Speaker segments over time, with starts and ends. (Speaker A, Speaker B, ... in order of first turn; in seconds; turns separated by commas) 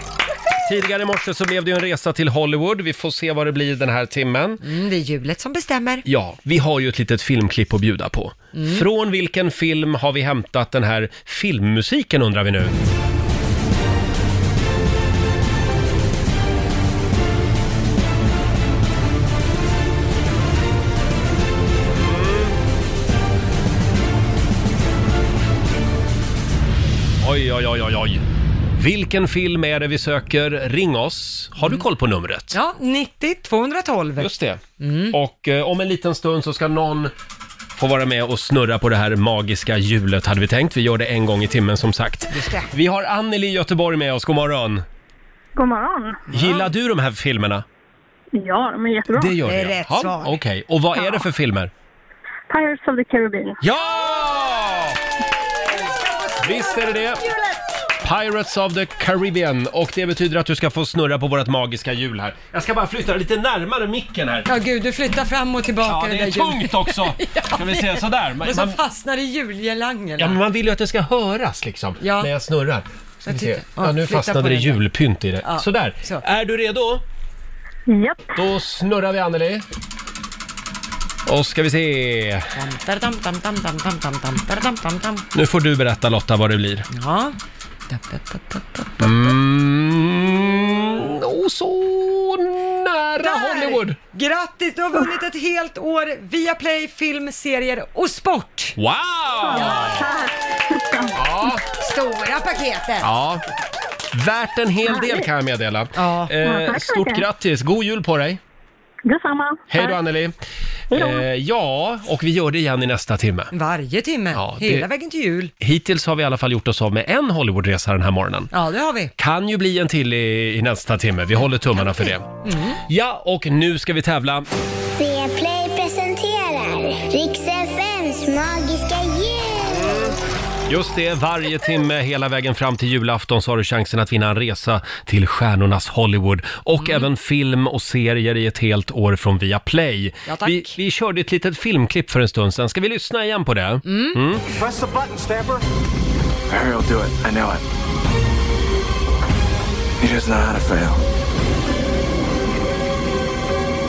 Speaker A: 0.6-4.6, Speaker B: 4.6-6.1, Speaker A: 6.0-12.8, Speaker B: 8.5-8.9, Speaker A: 22.0-22.5, Speaker A: 27.2-28.2, Speaker A: 28.8-32.6, Speaker B: 31.6-31.8, Speaker B: 32.5-35.2, Speaker A: 34.2-37.1, Speaker A: 37.8-44.8, Speaker B: 42.3-42.7, Speaker C: 45.6-46.2, Speaker A: 46.3-47.6, Speaker B: 46.4-46.6, Speaker C: 48.3-49.4, Speaker A: 49.1-51.7, Speaker B: 49.4-50.4, Speaker C: 52.5-53.6, Speaker A: 53.6-55.0, Speaker B: 55.5-57.8, Speaker A: 56.4-57.2, Speaker A: 58.0-64.5, Speaker B: 64.5-70.4, Speaker A: 65.8-68.8, Speaker A: 70.2-77.0, Speaker B: 72.0-72.3, Speaker B: 73.3-74.8, Speaker B: 75.4-76.2, Speaker C: 77.9-78.2, Speaker A: 78.4-79.6, Speaker A: 81.3-82.5, Speaker B: 82.5-85.3, Speaker A: 85.3-86.9, Speaker B: 86.9-87.4, Speaker B: 87.9-89.3, Speaker A: 89.0-94.0, Speaker B: 93.2-98.8, Speaker A: 98.8-100.1, Speaker C: 99.5-101.5, Speaker A: 101.1-101.6, Speaker B: 101.7-103.1, Speaker A: 103.0-103.4, Speaker A: 104.1-108.4, Speaker C: 104.9-105.3, Speaker B: 106.0-106.4, Speaker C: 106.4-107.3, Speaker C: 109.1-110.0, Speaker A: 109.7-110.3, Speaker C: 110.9-111.2, Speaker A: 110.9-113.5, Speaker B: 113.5-115.5, Speaker A: 114.3-114.9, Speaker A: 115.6-118.5, Speaker B: 118.5-119.1, Speaker A: 119.2-122.3, Speaker B: 121.8-122.8, Speaker A: 122.9-124.5, Speaker D: 125.0-130.2, Speaker A: 129.6-130.2, Speaker A: 130.7-144.4, Speaker B: 136.8-137.1, Speaker B: 140.3-140.8, Speaker B: 143.9-144.2, Speaker E: 144.5-145.6, Speaker E: 146.5-147.6, Speaker E: 150.0-151.0